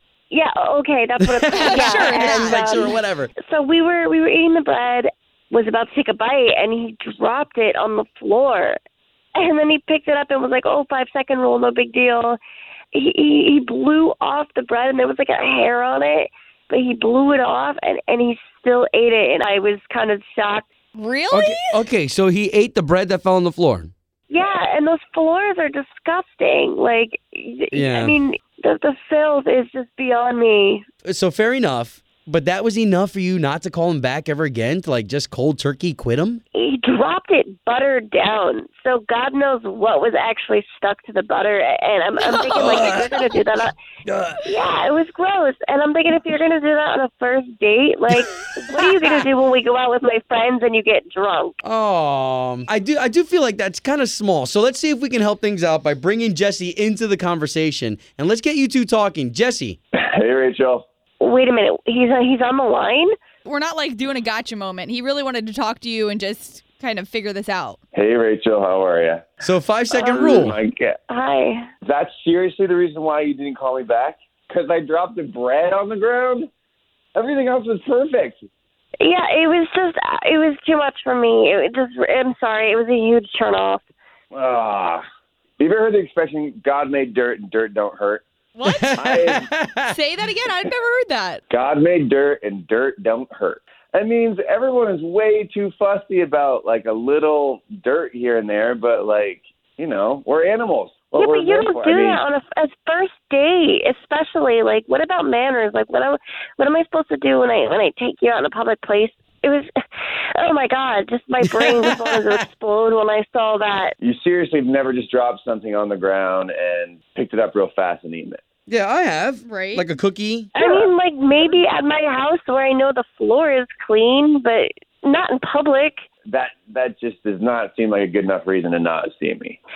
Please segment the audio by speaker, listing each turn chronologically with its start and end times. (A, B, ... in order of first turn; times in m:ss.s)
0:00.3-0:08.8 A
0:01.3-0:03.3 B
0:01.6-0:02.9 C
0:09.4-0:12.4 A
0:12.9-0:20.6 A
0:21.0-0:21.8 C
0:21.3-0:23.9 B
0:24.3-0:30.8 A
0:27.7-0:28.1 B
0:31.0-0:36.4 B
0:36.6-0:43.8 A
0:44.5-0:51.6 A
0:51.6-0:59.8 B
0:59.9-1:00.9 D
1:01.2-1:03.1 A
1:03.4-1:07.8 C
1:07.9-1:09.3 D
1:09.4-1:10.5 B
1:09.9-1:11.0 D
1:11.1-1:11.7 A
1:11.8-1:16.5 D
1:17.2-1:18.5 D
1:19.0-1:23.8 A
1:24.3-1:25.0 D
1:25.6-1:28.2 D
1:28.6-1:28.9 C
1:28.7-1:30.0 B
1:29.0-1:29.4 D
1:29.9-1:31.4 C
1:31.5-1:42.2 D
1:41.1-1:49.7 A
1:50.4-1:53.9 A
1:51.6-1:52.0 B
1:54.0-1:58.4 D
1:58.7-2:00.5 B
1:59.4-1:59.8 C
2:00.6-2:06.0 A
2:06.3-2:09.6 D